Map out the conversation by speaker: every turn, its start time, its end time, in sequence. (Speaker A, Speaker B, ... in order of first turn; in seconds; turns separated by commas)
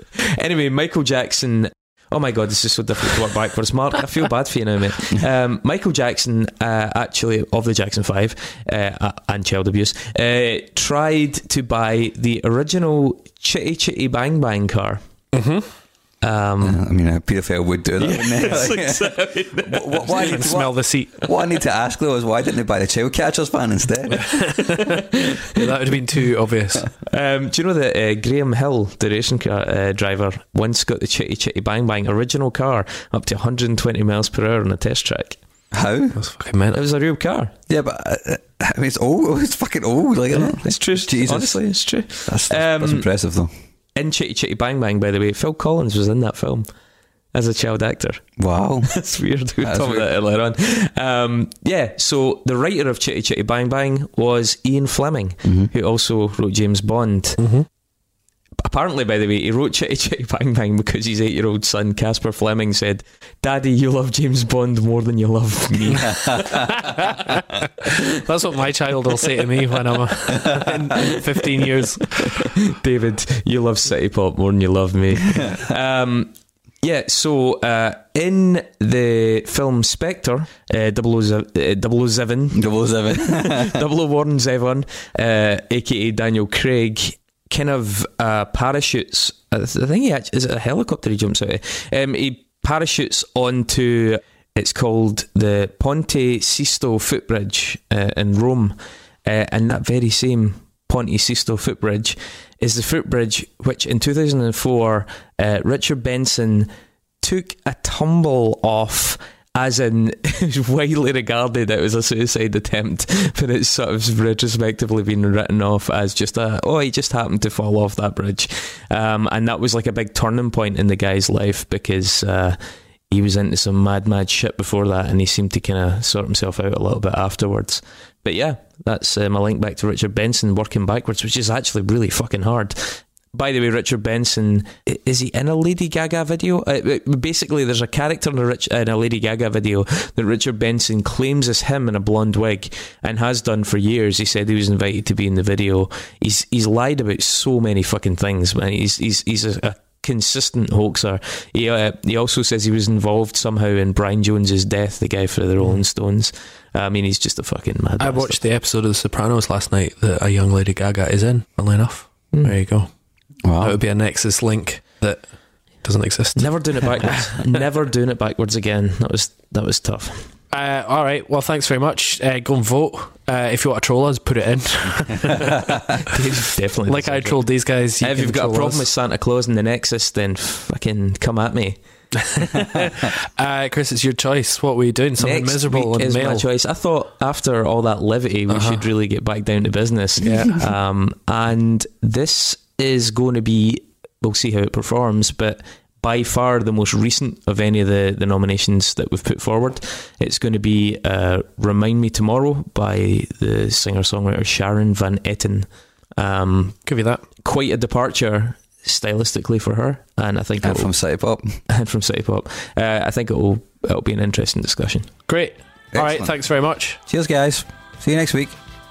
Speaker A: 0.1-15.0, Speaker B: 15.3-15.7, Speaker A: 16.2-16.8, Speaker C: 16.6-24.6, Speaker A: 18.0-20.4, Speaker B: 20.2-21.2, Speaker B: 24.2-25.0, Speaker B: 25.5-26.9, Speaker A: 27.1-35.4, Speaker C: 35.7-36.2, Speaker B: 36.1-36.8, Speaker A: 36.7-37.5, Speaker C: 37.7-41.6, Speaker A: 40.3-43.1, Speaker C: 42.2-43.5, Speaker A: 44.0-46.7, Speaker A: 47.3-57.4, Speaker C: 48.4-48.9, Speaker C: 49.6-50.1, Speaker C: 55.4-55.7, Speaker B: 57.4-57.7, Speaker A: 58.6-67.1, Speaker C: 66.1-66.4, Speaker B: 66.7-67.4, Speaker B: 68.0-72.5, Speaker A: 72.7-106.7, Speaker C: 82.5-83.8, Speaker A: 107.2-158.4, Speaker B: 158.0-162.9, Speaker C: 163.4-163.8, Speaker B: 163.6-165.3, Speaker B: 165.8-166.5, Speaker A: 166.3-170.3, Speaker B: 170.5-175.5, Speaker A: 176.1-181.8, Speaker B: 176.9-178.8, Speaker B: 182.3-186.4, Speaker A: 185.2-210.9, Speaker B: 188.5-188.8, Speaker B: 190.2-190.6, Speaker B: 206.8-207.2, Speaker C: 210.6-211.6, Speaker A: 211.7-215.1, Speaker B: 215.3-217.0, Speaker C: 215.9-216.4, Speaker C: 217.1-218.6